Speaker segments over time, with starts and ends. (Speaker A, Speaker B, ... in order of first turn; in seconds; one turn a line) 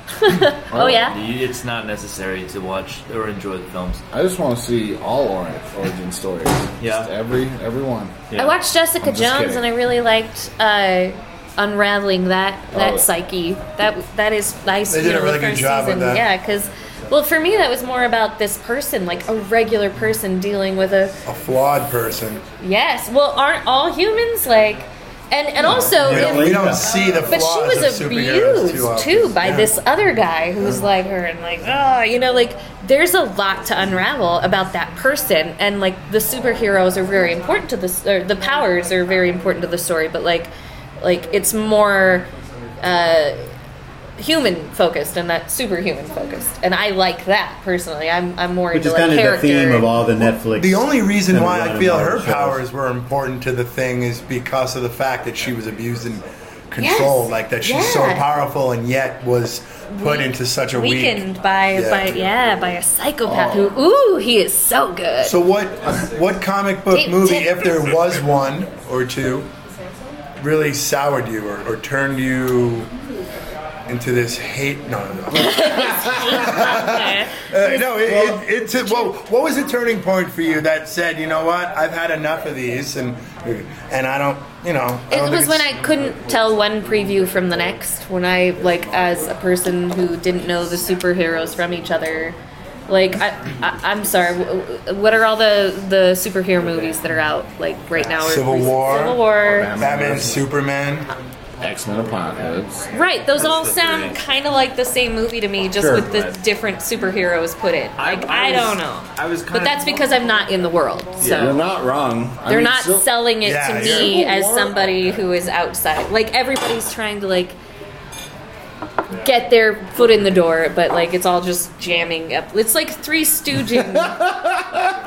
Speaker A: 0.2-1.2
Speaker B: 0.7-1.1
Speaker C: 0.8-4.0
Speaker B: 4.1-8.2
Speaker C: 6.8-7.1
Speaker C: 8.3-8.6
Speaker A: 8.4-21.2
Speaker B: 9.0-9.7
Speaker B: 12.7-13.1
Speaker D: 14.9-16.2
Speaker D: 21.3-22.4
Speaker A: 22.6-26.7
Speaker E: 25.6-26.9
Speaker D: 26.0-29.7
Speaker A: 27.3-40.5
Speaker A: 41.0-42.3
Speaker A: 42.8-43.5
Speaker A: 44.2-49.9
Speaker E: 48.7-52.6
Speaker D: 50.5-62.2
Speaker A: 56.8-58.2
Speaker A: 59.9-65.3
Speaker B: 63.2-63.8
Speaker D: 65.2-69.5
Speaker A: 66.9-67.9
Speaker D: 70.4-72.9
Speaker D: 73.9-85.7
Speaker A: 75.3-77.5
Speaker E: 77.6-78.4
Speaker A: 85.1-92.4
Speaker A: 92.9-99.7
Speaker D: 98.2-99.2
Speaker B: 99.5-100.5
Speaker D: 99.8-101.1
Speaker B: 101.6-102.9
Speaker A: 102.9-111.6
Speaker C: 103.3-104.2
Speaker E: 105.8-106.1
Speaker C: 106.1-106.4
Speaker C: 108.0-109.8
Speaker C: 111.2-111.6
Speaker B: 111.2-114.8
Speaker A: 112.5-117.6
Speaker D: 113.4-114.2
Speaker A: 119.2-124.2
Speaker B: 124.0-124.9